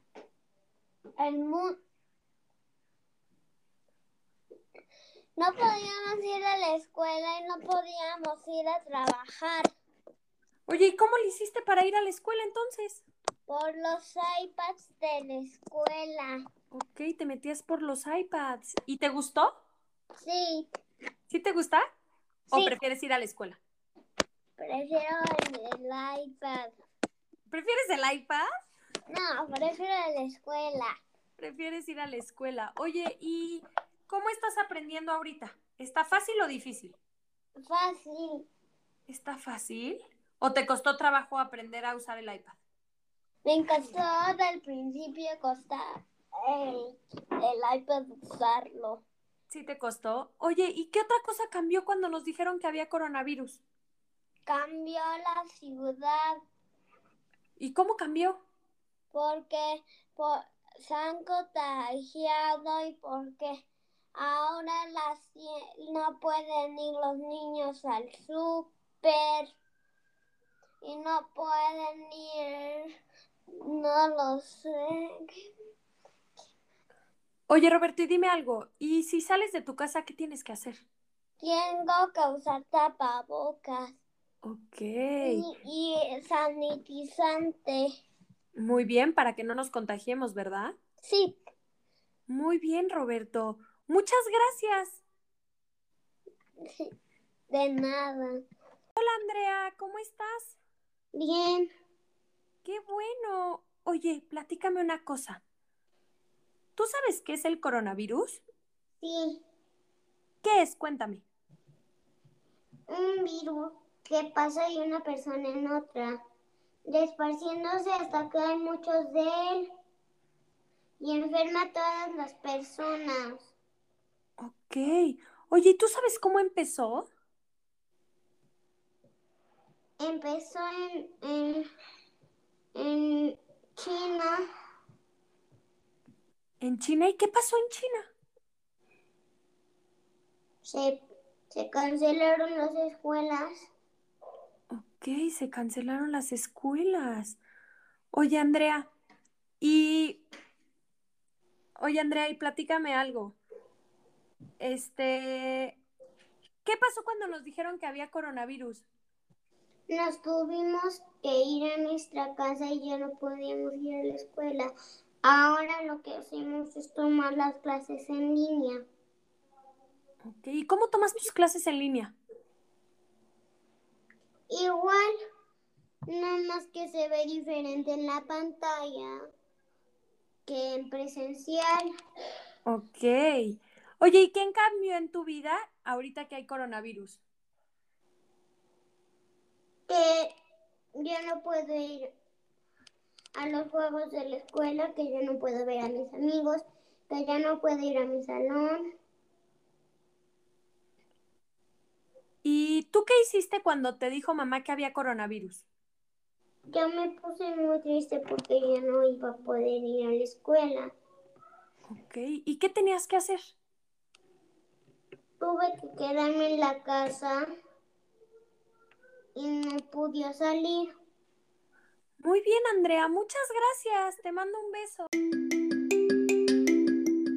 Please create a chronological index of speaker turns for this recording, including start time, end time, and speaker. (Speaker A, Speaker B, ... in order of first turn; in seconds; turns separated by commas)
Speaker A: 1.2-1.7, Speaker A: 5.3-9.7, Speaker B: 10.7-13.0, Speaker A: 13.5-16.4, Speaker B: 16.7-19.5, Speaker A: 20.2-20.7, Speaker B: 21.3-21.8, Speaker B: 22.5-23.6, Speaker A: 24.6-26.7, Speaker B: 27.5-28.4, Speaker A: 29.1-30.9, Speaker B: 31.4-37.0, Speaker A: 37.6-38.5, Speaker B: 39.1-42.6, Speaker A: 43.4-49.0, Speaker B: 49.5-53.6, Speaker A: 54.5-56.4, Speaker B: 57.6-58.4, Speaker A: 59.1-69.5, Speaker A: 70.8-72.9, Speaker A: 73.6-75.3, Speaker B: 77.5-80.8, Speaker A: 81.4-84.0, Speaker B: 84.4-85.5, Speaker A: 85.2-87.9, Speaker B: 88.5-90.7, Speaker A: 91.0-91.4, Speaker B: 92.3-95.0, Speaker A: 96.6-96.9, Speaker A: 97.5-98.4, Speaker B: 99.0-100.6, Speaker A: 101.1-101.7, Speaker B: 102.6-105.4, Speaker B: 106.8-108.4, Speaker A: 109.0-109.4, Speaker B: 110.4-111.2, Speaker A: 112.9-116.2, Speaker A: 116.8-119.7, Speaker A: 121.0-123.5, Speaker B: 124.4-127.1, Speaker A: 130.0-131.7, Speaker A: 132.7-134.4, Speaker B: 136.6-138.1, Speaker A: 140.6-143.7, Speaker B: 144.7-147.4, Speaker B: 148.1-148.9, Speaker B: 149.6-150.2, Speaker B: 151.8-153.4, Speaker B: 154.6-155.8, Speaker B: 156.6-158.8, Speaker A: 159.9-164.7, Speaker A: 165.2-168.8, Speaker B: 170.2-172.2, Speaker A: 174.5-175.1, Speaker A: 176.1-179.2, Speaker A: 180.4-181.9, Speaker B: 182.6-187.2, Speaker A: 189.9-190.3, Speaker A: 190.9-192.1, Speaker A: 193.3-198.8, Speaker B: 202.4-205.6, Speaker A: 206.7-210.9, Speaker B: 211.9-213.5, Speaker A: 215.4-217.4, Speaker A: 219.3-220.9, Speaker B: 222.2-225.1